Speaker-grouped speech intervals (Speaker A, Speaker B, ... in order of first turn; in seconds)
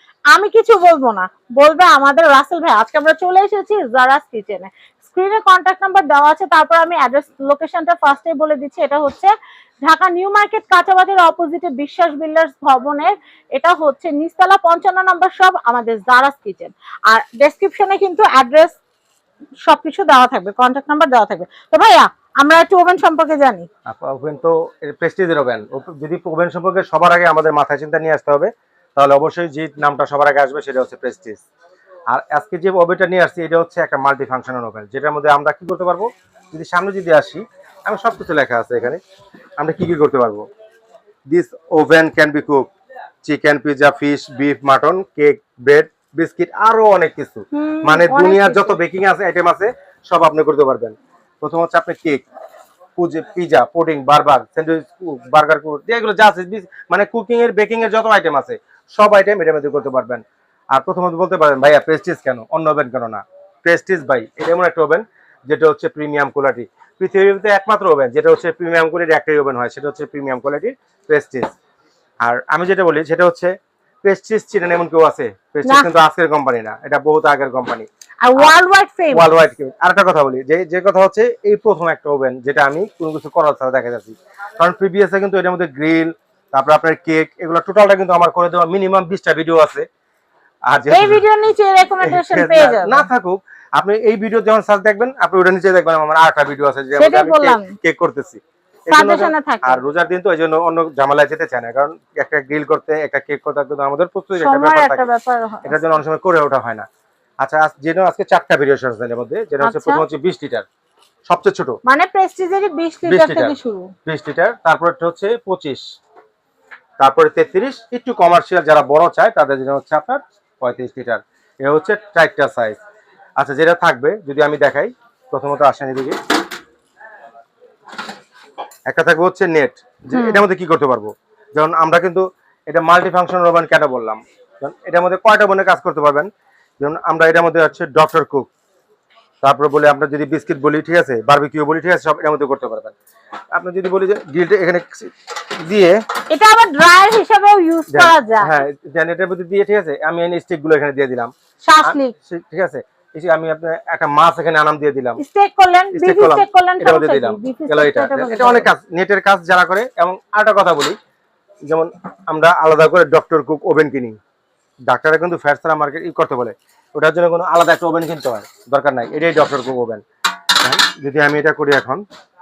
Speaker A: 0.3-18.8, 19.6-23.7, 47.5-48.8, 78.2-79.2, 90.9-93.0, 97.0-97.7, 98.9-99.8, 104.4-105.8, 109.6-110.0, 111.8-113.9, 130.1-130.4, 146.3-148.5, 151.6-152.1, 155.2-158.7
Speaker B: 23.9-31.4, 32.1-39.0, 39.6-40.4, 41.3-42.7, 43.2-52.2, 53.0-71.5, 72.2-73.5, 74.0-78.5, 79.1-89.8, 90.7-91.3, 92.0-105.1, 105.6-106.9, 107.4-110.7, 111.3-111.8, 113.0-115.8, 117.0-122.8, 123.4-126.2, 128.9-138.5, 139.4-142.9, 143.5-146.0, 147.9-151.3, 151.8-155.2, 155.9-160.9, 161.7-164.2, 164.8-170.0, 170.6-172.0